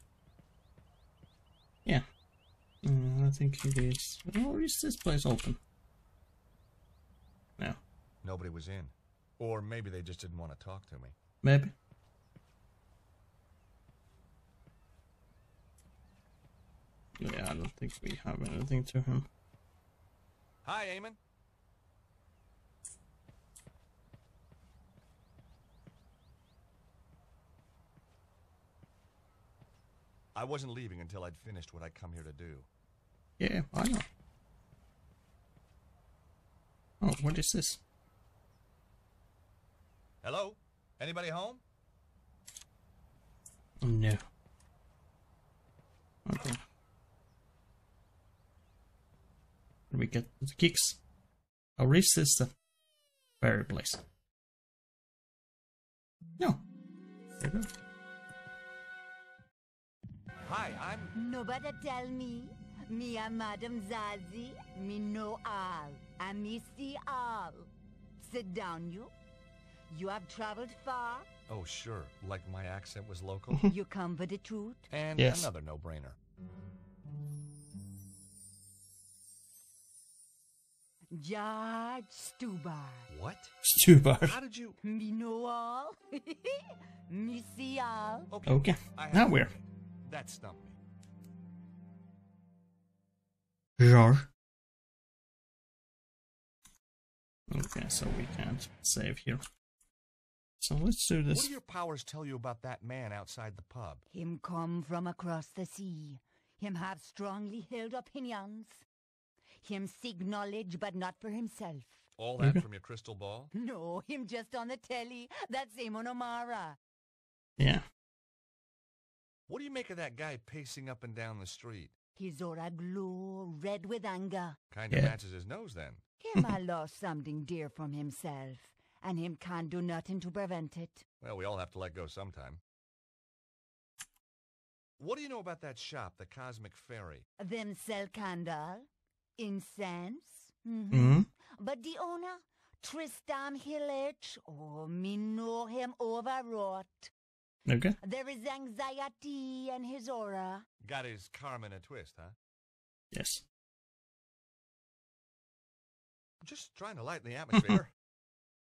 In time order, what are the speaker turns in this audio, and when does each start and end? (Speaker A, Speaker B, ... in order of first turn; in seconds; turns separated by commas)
Speaker A: 2.8-5.6, Speaker B: 8.2-11.2, Speaker A: 11.4-11.7, Speaker A: 17.2-19.3, Speaker B: 20.6-21.2, Speaker B: 30.3-32.7, Speaker A: 33.4-34.0, Speaker A: 37.0-37.8, Speaker B: 40.2-41.6, Speaker A: 43.8-44.2, Speaker A: 46.2-46.6, Speaker A: 49.9-51.0, Speaker A: 51.8-52.5, Speaker A: 53.4-54.0, Speaker A: 57.4-57.7, Speaker B: 60.4-61.1, Speaker C: 61.1-69.1, Speaker C: 69.9-71.3, Speaker B: 71.5-73.6, Speaker C: 73.7-74.8, Speaker B: 74.9-76.2, Speaker A: 75.2-75.5, Speaker C: 81.1-83.1, Speaker B: 83.1-83.5, Speaker A: 83.6-84.4, Speaker B: 84.2-84.8, Speaker C: 84.8-88.3, Speaker B: 88.3-90.8, Speaker A: 88.5-89.5, Speaker A: 93.8-94.3, Speaker A: 97.5-99.4, Speaker A: 100.6-101.5, Speaker B: 101.3-104.0, Speaker C: 104.1-108.8, Speaker C: 109.6-112.0, Speaker B: 112.2-113.5, Speaker C: 113.5-116.8, Speaker A: 117.6-117.8, Speaker B: 119.5-121.9, Speaker C: 122.2-124.6, Speaker B: 124.7-126.0, Speaker C: 126.2-131.0, Speaker B: 131.2-132.6, Speaker B: 135.0-137.2, Speaker C: 137.4-147.1, Speaker A: 140.9-141.3, Speaker A: 147.7-147.9, Speaker C: 148.0-150.7, Speaker B: 150.8-152.3, Speaker A: 153.1-153.4, Speaker B: 156.4-157.9, Speaker A: 157.6-157.8